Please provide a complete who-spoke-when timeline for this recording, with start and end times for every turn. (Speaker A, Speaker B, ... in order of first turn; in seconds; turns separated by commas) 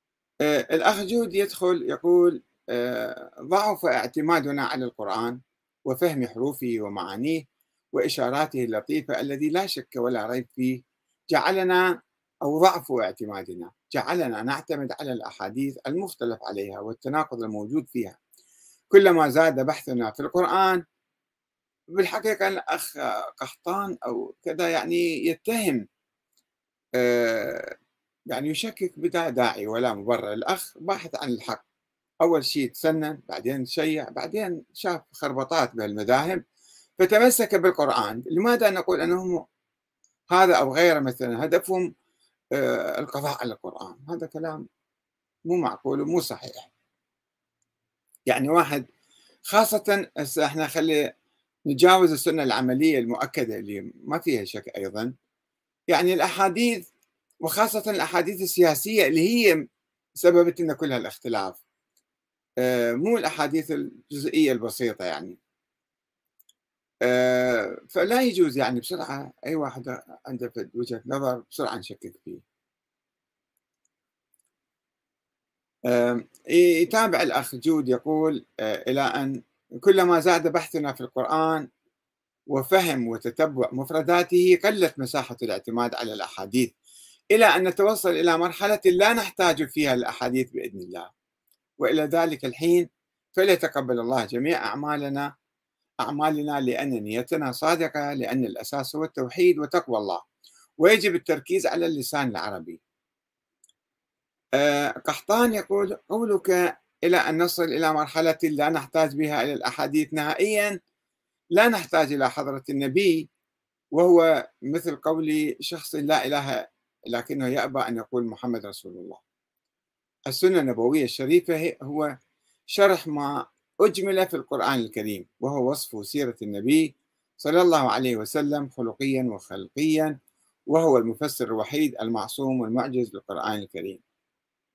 Speaker A: 0.5-7.4, Speaker A: 7.9-10.8, Speaker A: 11.3-11.9, Speaker A: 12.4-18.2, Speaker A: 18.9-20.8, Speaker A: 21.9-25.8, Speaker A: 27.0-27.8, Speaker A: 28.3-31.6, Speaker A: 32.2-36.4, Speaker A: 37.0-39.4, Speaker A: 40.3-41.9, Speaker A: 42.5-44.6, Speaker A: 45.5-46.7, Speaker A: 48.3-48.9, Speaker A: 49.5-51.0, Speaker A: 51.7-55.1, Speaker A: 55.9-56.8, Speaker A: 57.4-59.6, Speaker A: 60.2-61.6, Speaker A: 62.6-65.4, Speaker A: 67.0-72.4, Speaker A: 75.9-81.7, Speaker A: 82.5-86.7, Speaker A: 87.3-91.1, Speaker A: 91.8-95.3, Speaker A: 96.0-100.2, Speaker A: 100.8-102.8, Speaker A: 104.6-110.8, Speaker A: 111.6-113.2, Speaker A: 114.0-119.2, Speaker A: 120.3-122.1, Speaker A: 122.7-126.9, Speaker A: 127.4-130.2, Speaker A: 130.7-134.0